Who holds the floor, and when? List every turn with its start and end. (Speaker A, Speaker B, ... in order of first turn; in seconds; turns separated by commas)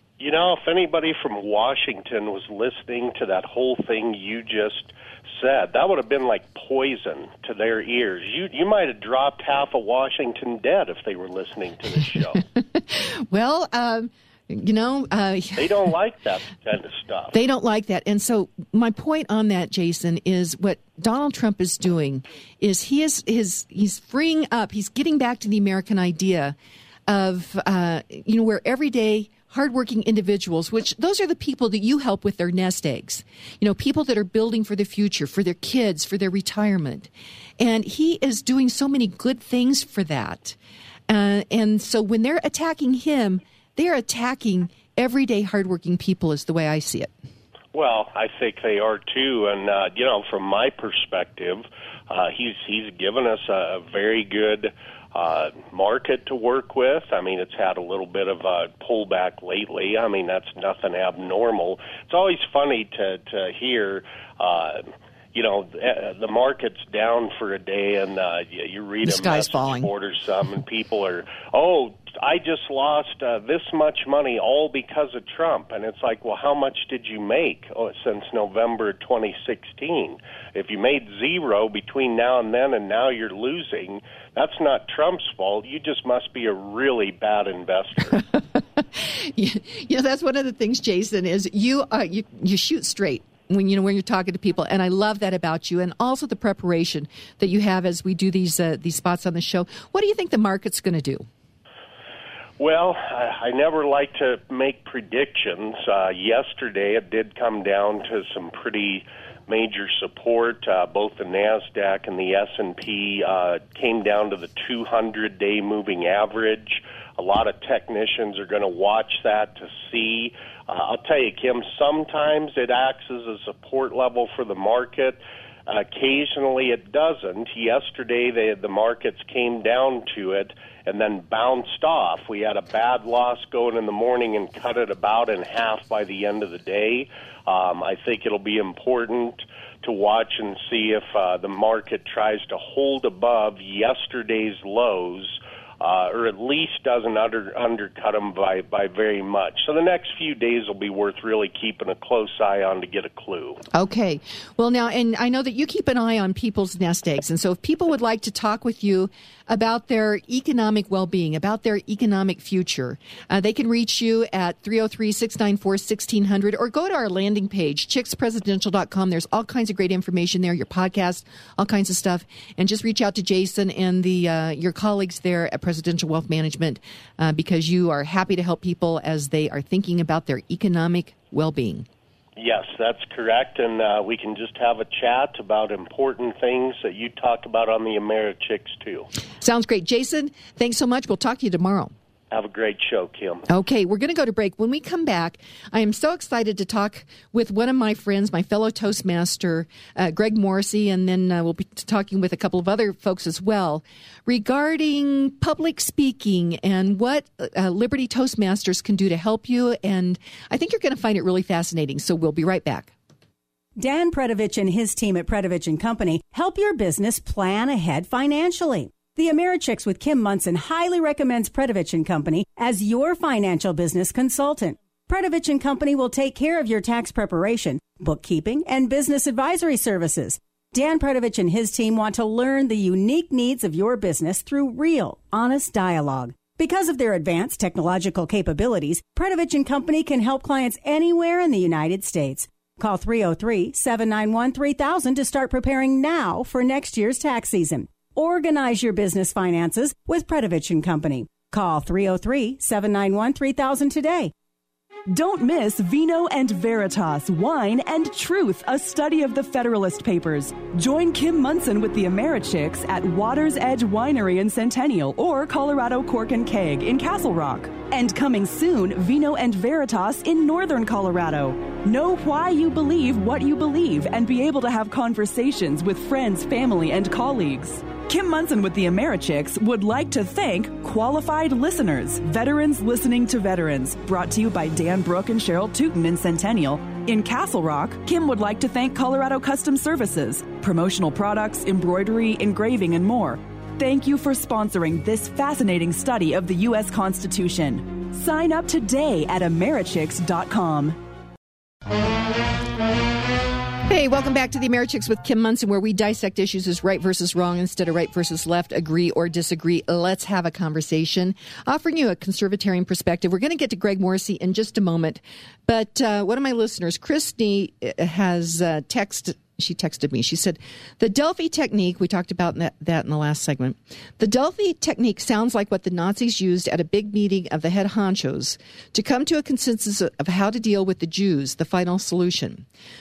Speaker A: 0.2-12.4, Speaker B: 12.9-15.9, Speaker A: 15.6-17.3, Speaker B: 17.3-26.6, Speaker B: 27.1-37.1, Speaker B: 37.6-40.6, Speaker B: 41.1-47.1, Speaker A: 47.7-88.2, Speaker B: 69.0-69.9, Speaker B: 88.8-101.2, Speaker A: 102.6-153.6, Speaker B: 153.7-181.9, Speaker A: 182.4-189.1, Speaker B: 189.4-191.9, Speaker A: 192.3-193.4, Speaker B: 193.5-212.9, Speaker C: 213.8-254.3, Speaker D: 255.1-301.0, Speaker B: 303.9-332.6